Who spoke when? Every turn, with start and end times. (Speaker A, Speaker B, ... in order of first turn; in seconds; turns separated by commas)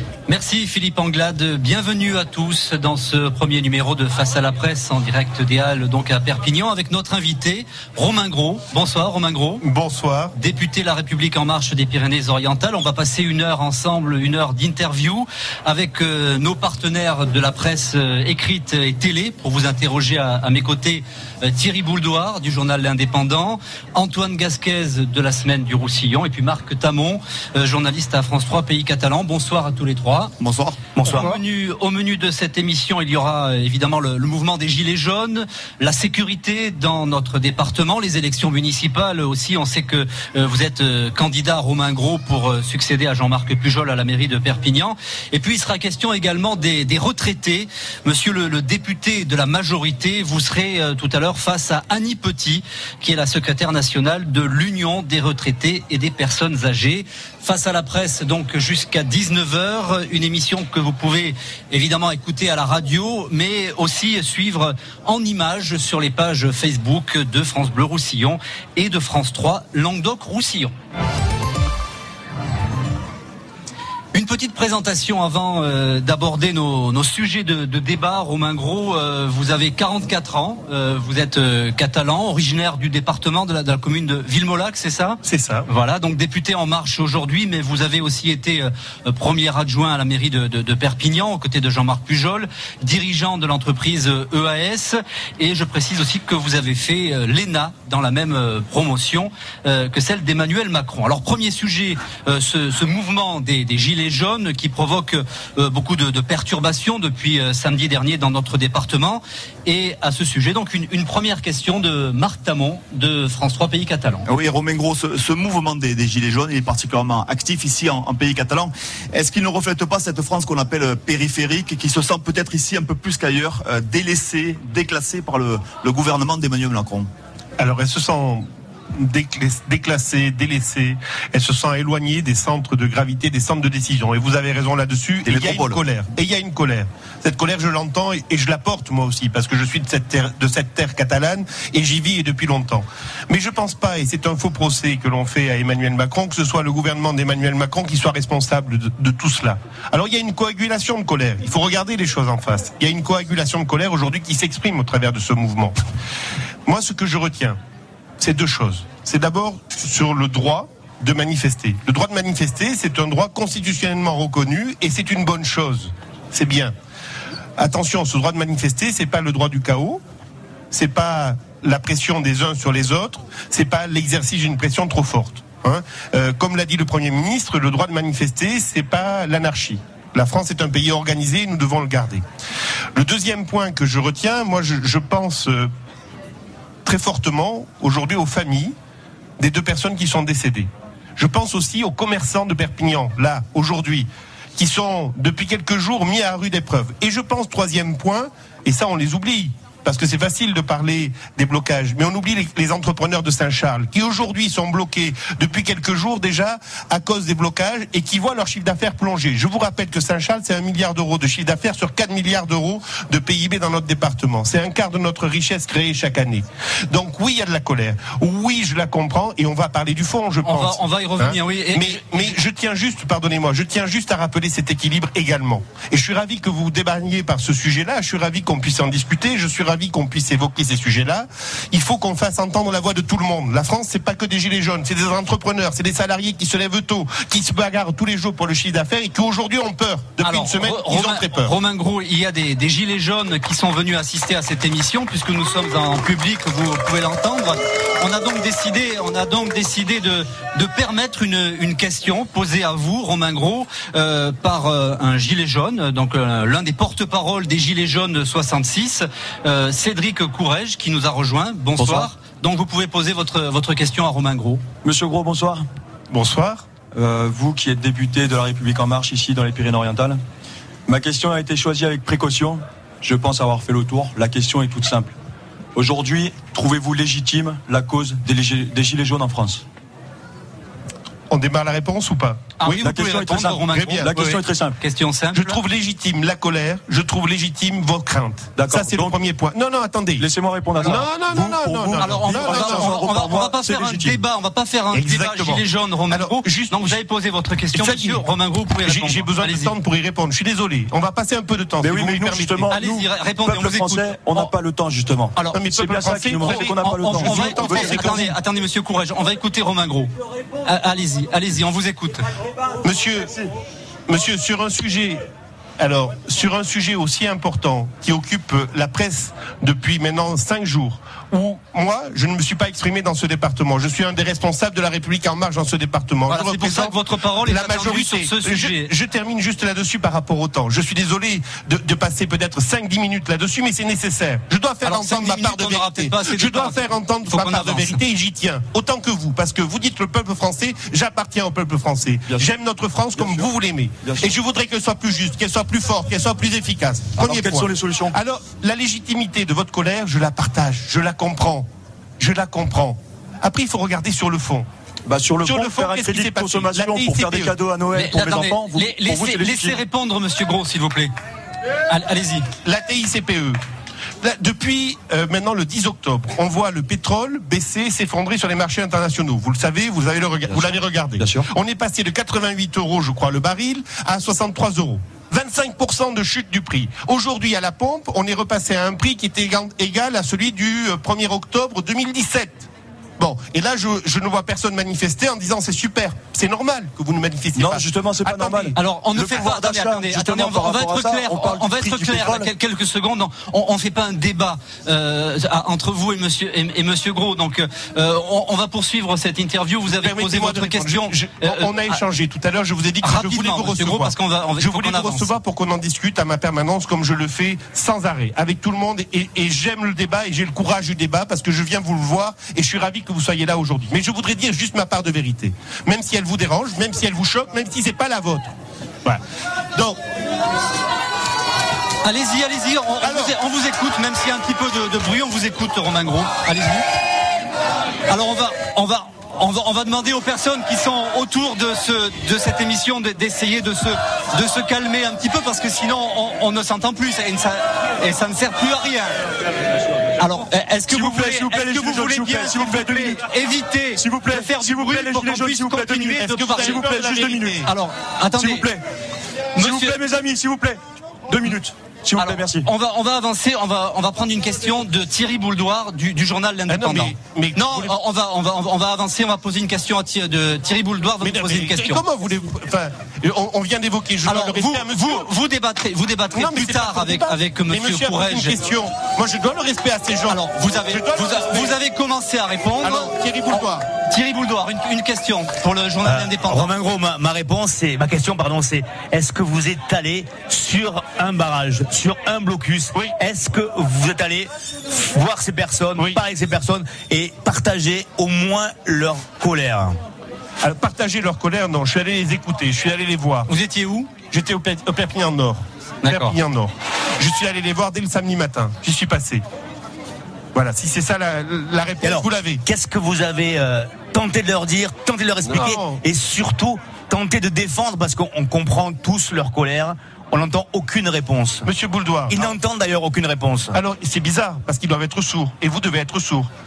Speaker A: 0.3-9.6, Speaker B: 9.6-10.3, Speaker A: 10.3-30.3, Speaker C: 30.4-31.1, Speaker D: 30.9-31.3, Speaker A: 31.0-70.7, Speaker A: 74.1-114.3, Speaker B: 85.2-85.7, Speaker C: 114.3-127.1, Speaker B: 127.6-155.8, Speaker C: 135.2-135.8, Speaker B: 156.7-157.6, Speaker B: 158.2-166.7, Speaker B: 167.6-170.0, Speaker B: 170.7-182.2, Speaker B: 182.9-185.7, Speaker B: 186.8-188.7, Speaker B: 189.4-241.5, Speaker A: 220.4-222.3, Speaker A: 240.2-264.6, Speaker E: 261.8-262.1, Speaker E: 264.8-265.6, Speaker B: 266.1-266.7, Speaker E: 266.9-270.2, Speaker E: 270.9-275.1, Speaker E: 275.7-279.6, Speaker B: 281.3-282.9, Speaker A: 282.6-285.6, Speaker E: 282.8-284.7, Speaker B: 283.7-284.1, Speaker B: 285.3-290.3, Speaker E: 288.6-289.2, Speaker E: 290.2-294.2, Speaker B: 290.8-293.3, Speaker A: 292.0-299.7, Speaker B: 294.9-297.0, Speaker B: 297.7-298.2, Speaker B: 298.8-302.7, Speaker E: 301.8-308.2, Speaker A: 302.7-304.5, Speaker A: 305.3-305.6, Speaker B: 305.5-308.3, Speaker A: 306.3-310.1, Speaker A: 310.6-312.2, Speaker B: 312.8-313.3, Speaker B: 314.1-315.2, Speaker B: 315.8-351.7, Speaker A: 326.3-328.9, Speaker A: 334.8-338.0, Speaker E: 343.1-343.5, Speaker E: 344.0-344.3, Speaker E: 347.2-348.1, Speaker B: 352.2-354.7, Speaker E: 355.1-359.8, Speaker B: 355.4-357.5, Speaker A: 357.9-361.1, Speaker A: 361.9-362.4, Speaker B: 362.6-363.6, Speaker B: 364.2-382.7, Speaker E: 370.4-371.4, Speaker B: 383.2-388.8, Speaker E: 387.6-392.5, Speaker A: 388.7-402.0, Speaker B: 400.0-418.5, Speaker A: 403.0-405.3, Speaker B: 419.7-420.0, Speaker A: 422.0-426.8, Speaker B: 423.0-423.3, Speaker A: 428.1-439.1, Speaker A: 440.2-446.9, Speaker E: 440.9-443.2, Speaker E: 444.0-447.6, Speaker B: 446.2-447.7, Speaker A: 447.6-448.7, Speaker E: 448.4-448.8, Speaker A: 449.6-450.0, Speaker E: 449.6-452.6, Speaker A: 452.1-462.0, Speaker B: 456.7-457.9, Speaker B: 461.2-465.3, Speaker A: 464.2-468.6, Speaker B: 466.3-471.8, Speaker A: 470.3-476.7, Speaker B: 472.8-473.8, Speaker D: 476.0-490.0, Speaker B: 490.6-493.5, Speaker A: 493.5-494.1, Speaker B: 494.3-499.4, Speaker A: 496.0-496.4, Speaker B: 500.5-502.6, Speaker D: 502.0-511.6, Speaker B: 505.5-506.0, Speaker B: 511.6-512.5, Speaker D: 512.3-513.8, Speaker B: 513.7-516.5